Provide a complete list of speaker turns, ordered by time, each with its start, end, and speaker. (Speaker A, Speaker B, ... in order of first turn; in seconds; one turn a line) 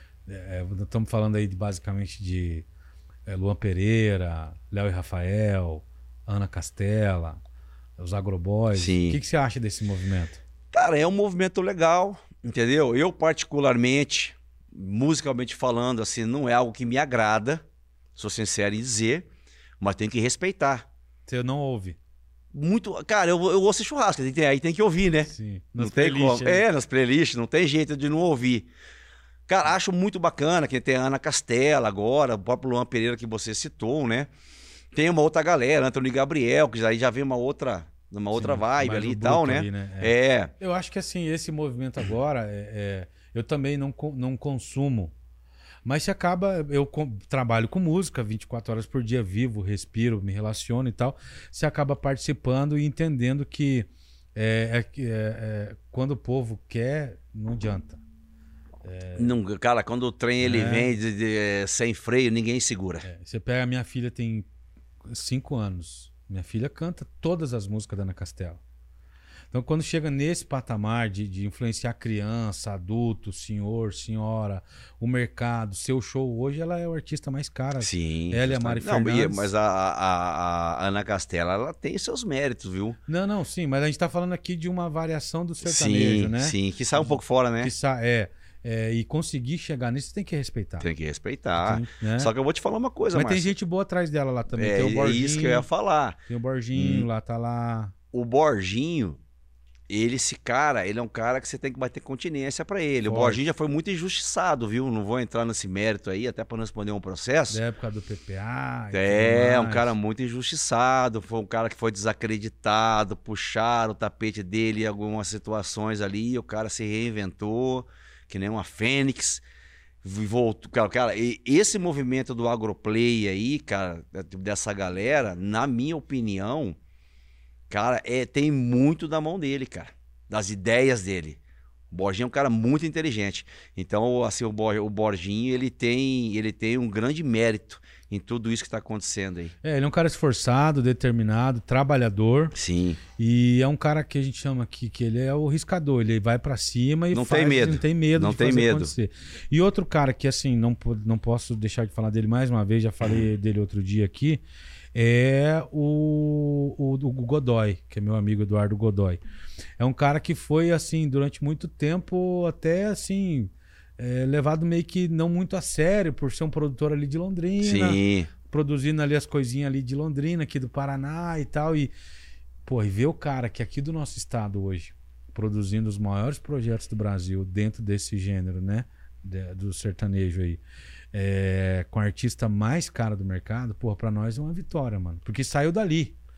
Speaker A: 0.3-2.6
Speaker A: 3.3-7.4
Speaker A: 8.0-10.4
Speaker B: 8.7-9.2
Speaker B: 10.7-17.6
Speaker B: 18.1-19.3
Speaker B: 19.8-20.9
Speaker A: 21.2-22.0
Speaker B: 22.5-28.7
Speaker A: 25.2-26.6
Speaker B: 29.5-34.3
Speaker B: 34.9-40.5
Speaker A: 38.3-45.1
Speaker A: 45.8-58.0
Speaker A: 58.8-59.4
Speaker B: 59.1-63.0
Speaker A: 60.4-60.9
Speaker A: 63.0-64.5
Speaker A: 65.1-68.6
Speaker A: 69.5-79.5
Speaker B: 77.8-83.0
Speaker A: 83.1-90.9
Speaker B: 85.6-87.7
Speaker B: 90.8-93.5
Speaker A: 91.5-92.3
Speaker A: 93.1-95.7
Speaker B: 94.5-96.2
Speaker A: 96.3-97.9
Speaker B: 96.7-97.0
Speaker B: 98.1-99.2
Speaker B: 99.9-107.6
Speaker A: 103.0-103.4
Speaker A: 107.5-109.9
Speaker B: 108.9-119.4
Speaker B: 120.0-126.8
Speaker B: 127.7-131.4
Speaker B: 131.9-139.5
Speaker A: 139.6-142.5
Speaker B: 142.5-143.0
Speaker A: 143.2-154.4
Speaker B: 147.1-148.9
Speaker A: 154.9-159.2
Speaker A: 159.8-171.9
Speaker B: 167.6-168.3
Speaker A: 172.6-180.6
Speaker A: 181.1-186.2